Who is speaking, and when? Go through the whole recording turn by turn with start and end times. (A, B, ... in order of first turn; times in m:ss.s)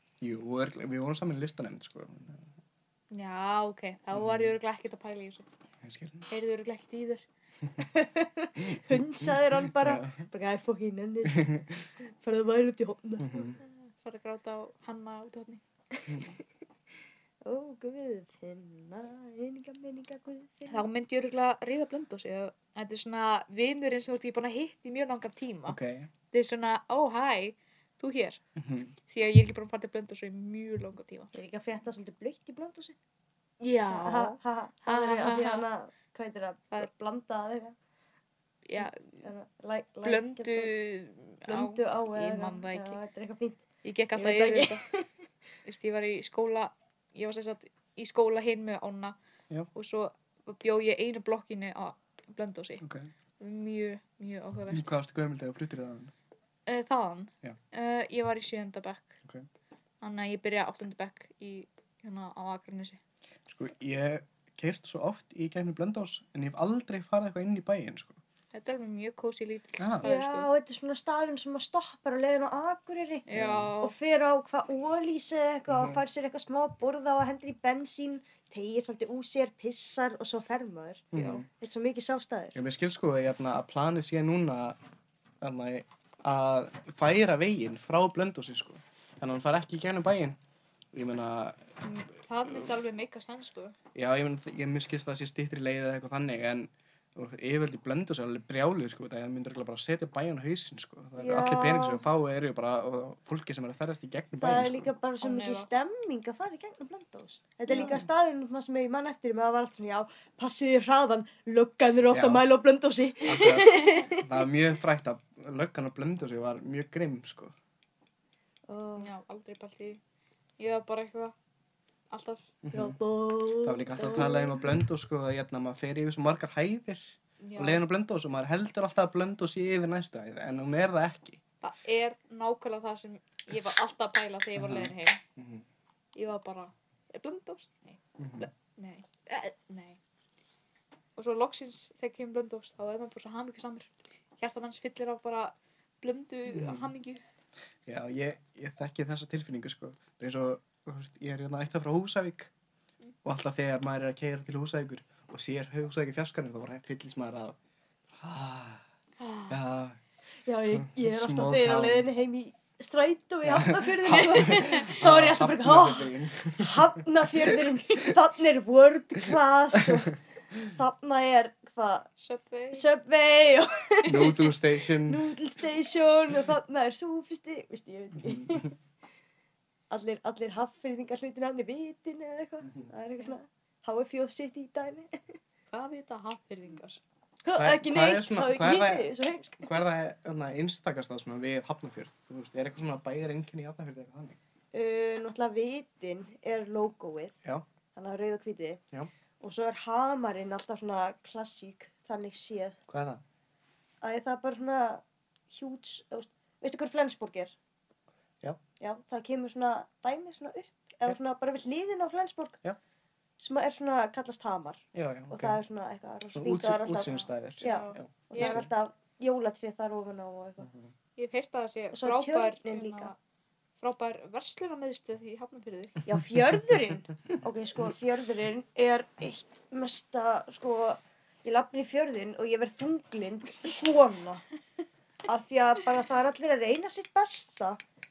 0:00.2-0:02.5 A
0:03.1-0:05.5 B
0:04.1-0:04.5 A
0:05.8-0:06.3 A
0:06.3-0:07.2 B
0:07.9-0:11.6 C
0:08.6-0:10.2 A
0:11.3-0:11.7 A
0:12.2-0:13.5 C
0:13.2-0:13.6 A
0:14.0-0:15.6 B
0:17.4-0:20.8 C
0:20.7-0:25.8 B
0:25.7-0:26.1 A
0:26.3-0:28.4 B
0:28.6-0:28.9 A
0:29.1-0:31.3 B
0:31.3-0:32.9 C
0:33.6-0:35.7 B
0:33.9-0:37.7 C
0:38.6-0:39.3 B
0:38.8-0:40.7 C
0:40.0-0:43.0 B
0:41.4-0:43.6 C
0:43.8-0:44.8 B
0:44.2-0:45.1 C
0:45.6-0:49.1 B
0:49.7-0:52.8 B
0:52.8-0:53.1 A
0:53.4-0:54.9 B
0:54.7-0:56.1 A
0:56.7-0:59.2 B
1:00.0-1:03.0 B
1:03.5-1:08.2 A
1:08.5-1:10.5 B
1:09.8-1:10.1 A
1:10.0-1:13.2 C
1:13.2-1:13.9 B
1:13.3-1:13.7 A
1:13.8-1:22.6 C
1:15.7-1:16.0 A
1:21.1-1:21.5 A
1:21.2-1:21.4 B
1:22.5-1:24.8 A
1:25.4-1:30.4 A
1:30.9-1:31.7 A
1:31.8-1:33.7 B
1:33.9-1:44.9 A
1:41.2-1:42.0 C
1:44.4-1:54.3 C
1:45.2-1:45.7 B
1:47.7-1:48.0 B
1:47.7-1:48.0 A
1:52.1-1:52.4 A
1:53.2-1:57.5 A
1:53.6-1:54.0 B
1:58.7-1:59.1 C
1:59.0-2:00.0 B
2:00.6-2:01.3 B
2:02.1-2:02.5 B
2:02.6-2:03.0 A
2:02.7-2:04.6 C
2:03.6-2:11.4 A
2:07.4-2:07.8 B
2:11.6-2:15.2 B
2:14.6-2:15.6 A
2:16.1-2:20.0 B
2:18.2-2:18.5 A
2:21.2-2:27.2 B
2:26.5-2:26.9 A
2:27.8-2:32.5 A
2:33.2-2:37.6 A
2:38.1-2:38.8 A
2:39.2-2:39.6 B
2:39.5-2:40.0 A
2:40.5-2:52.1 C
2:40.7-2:42.1 A
2:43.4-2:47.6 A
2:44.4-2:44.9 B
2:52.2-2:52.9 B
2:52.7-2:58.7 C
2:54.0-2:55.2 A
2:58.2-2:58.6 A
2:59.9-3:05.2 C
3:05.7-3:07.0 B
3:07.4-3:09.7 C
3:07.5-3:14.4 A
3:14.7-3:17.4 C
3:18.0-3:18.8 C
3:19.4-3:22.8 C
3:22.9-3:23.2 A
3:24.0-3:27.5 C
3:28.8-3:32.6 C
3:33.4-3:40.7 C
3:34.9-3:35.6 A
3:36.3-3:38.7 A
3:37.6-3:38.6 B
3:40.6-3:40.9 A
3:41.2-3:43.2 B
3:41.9-3:43.1 C
3:43.8-3:46.0 B
3:46.0-3:54.4 C
3:55.3-3:57.8 C